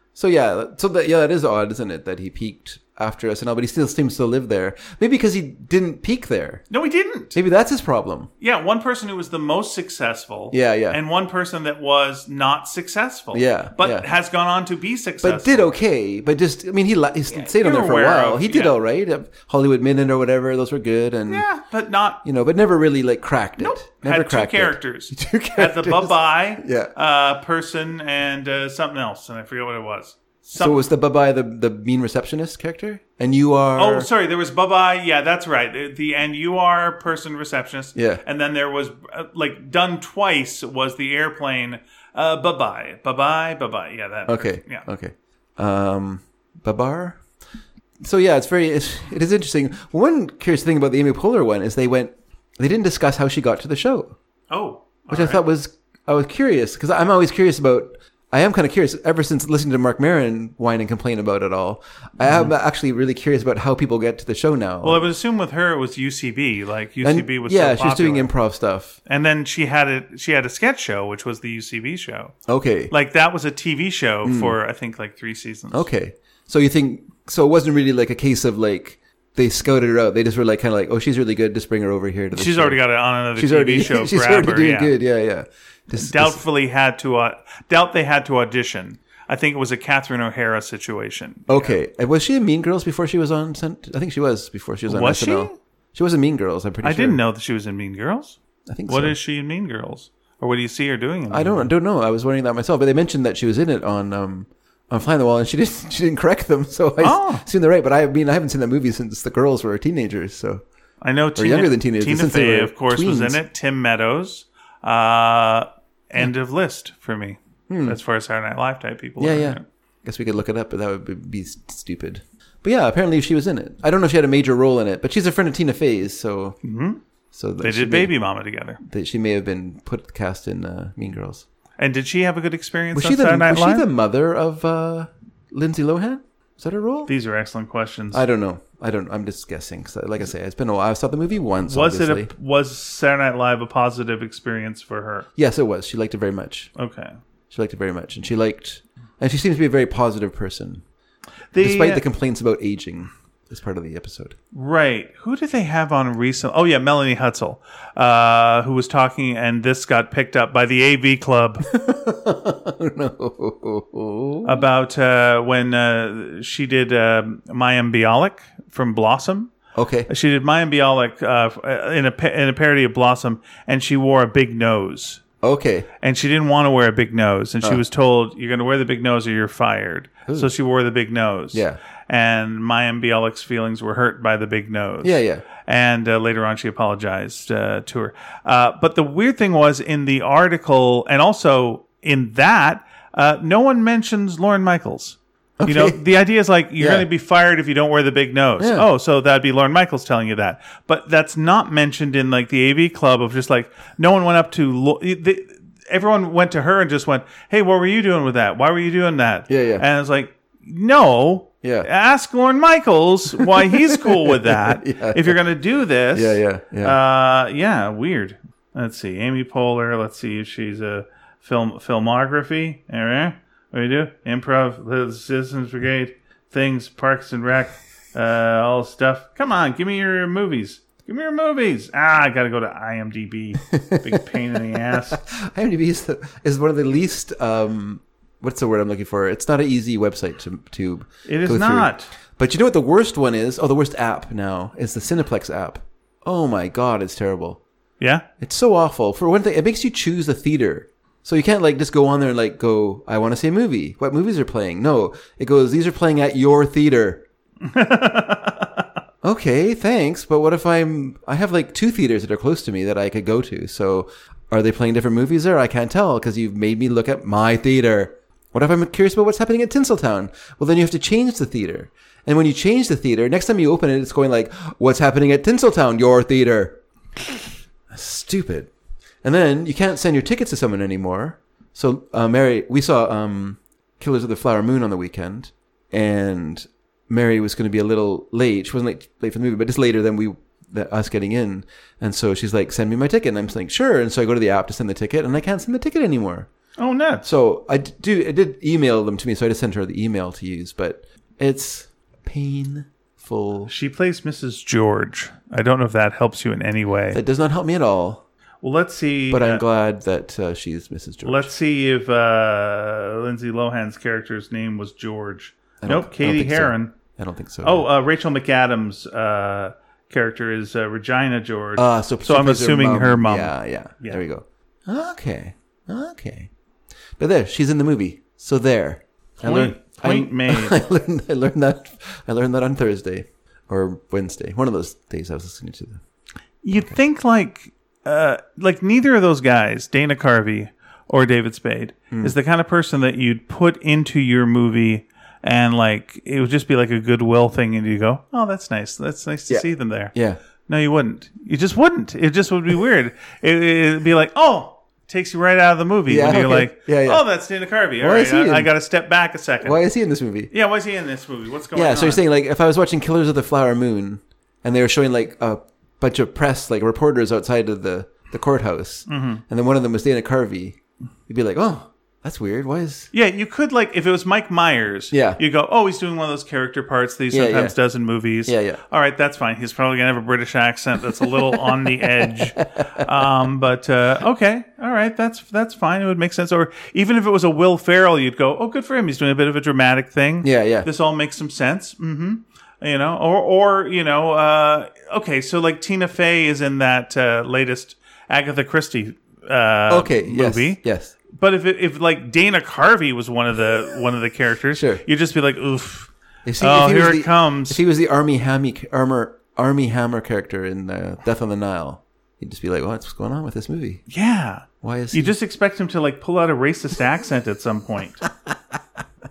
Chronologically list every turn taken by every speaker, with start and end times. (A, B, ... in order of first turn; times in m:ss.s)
0:00.2-0:06.6 A
0:06.7-0:07.4 B
0:07.3-0:08.3 A
0:08.4-0:15.7 B
0:10.5-0:11.0 A
0:13.3-0:14.1 A
0:15.2-0:21.4 A
0:17.3-0:18.8 B
0:21.3-0:22.2 B
0:22.2-0:26.9 A
0:23.6-0:30.8 B
0:30.6-0:34.1 A
0:33.8-0:44.8 B
0:38.0-0:38.2 A
0:44.3-0:47.2 A
0:48.0-0:54.2 A
0:54.5-0:55.4 B
0:55.1-1:05.0 A
1:02.2-1:02.5 B
1:04.8-1:08.3 B
1:07.0-1:09.0 A
1:09.1-1:12.4 B
1:12.5-1:12.9 A
1:12.9-1:15.9 B
1:14.2-1:14.6 A
1:15.7-1:22.8 A
1:22.3-1:24.9 B
1:23.4-1:26.4 A
1:25.9-1:31.8 B
1:31.5-1:37.2 A
1:34.9-1:35.5 B
1:36.8-1:41.7 B
1:38.7-1:39.2 A
1:41.3-1:50.6 A
1:47.0-1:47.4 B
1:51.0-1:59.6 B
1:51.4-1:53.4 A
1:57.7-1:58.0 A
1:59.2-2:06.6 A
2:06.6-2:07.0 B
2:07.3-2:08.1 A
2:07.6-2:08.8 B
2:08.8-2:11.4 A
2:11.8-2:13.9 B
2:12.9-2:17.1 A
2:17.1-2:18.2 B
2:18.1-2:22.3 A
2:21.7-2:25.3 B
2:25.4-2:26.7 A
2:26.8-2:27.2 B
2:27.5-2:30.8 A
2:31.5-2:32.0 B
2:31.6-2:34.4 A
2:34.5-2:41.6 B
2:41.7-2:44.6 A
2:44.4-2:49.5 B
2:49.8-2:50.1 A
2:50.1-2:55.2 B
2:55.4-2:55.9 A
2:56.0-3:55.2 B
3:01.5-3:01.8 A
3:05.0-3:05.4 A
3:15.6-3:16.0 A
3:16.8-3:17.1 A
3:18.6-3:18.9 A
3:29.5-3:29.8 A
3:31.6-3:31.9 A
3:33.4-3:35.4 A
3:36.1-3:37.0 A
3:53.6-4:07.6 A
4:01.3-4:02.1 B
4:08.0-4:08.3 B
4:08.4-4:17.2 A
4:17.6-4:18.9 B
4:19.2-4:38.7 A
4:39.2-4:56.5 A
4:56.8-4:57.3 B
4:57.2-5:03.7 A
5:03.7-5:07.2 B
5:07.1-5:08.2 A
5:08.6-5:09.6 B
5:09.3-5:11.5 A
5:11.2-5:17.0 B
5:15.8-5:17.9 A
5:17.6-5:24.2 B
5:21.8-5:26.5 A
5:27.2-5:36.0 A
5:29.4-5:30.8 B
5:36.6-5:50.1 B
5:42.1-5:42.4 A
5:49.5-5:50.4 A
5:50.7-5:59.8 B
5:56.1-5:57.2 A
5:58.0-5:58.7 A
5:59.6-6:00.5 A
6:00.5-6:02.2 B
6:01.7-6:13.1 A
6:09.1-6:09.4 B
6:13.1-6:47.8 B
6:15.1-6:15.4 A
6:17.3-6:17.8 A
6:18.5-6:18.8 A
6:22.6-6:23.0 A
6:30.4-6:30.9 A
6:39.9-6:41.1 A
6:44.8-6:45.0 A
6:46.5-6:54.0 A
6:54.1-6:58.2 B
6:54.8-6:55.4 A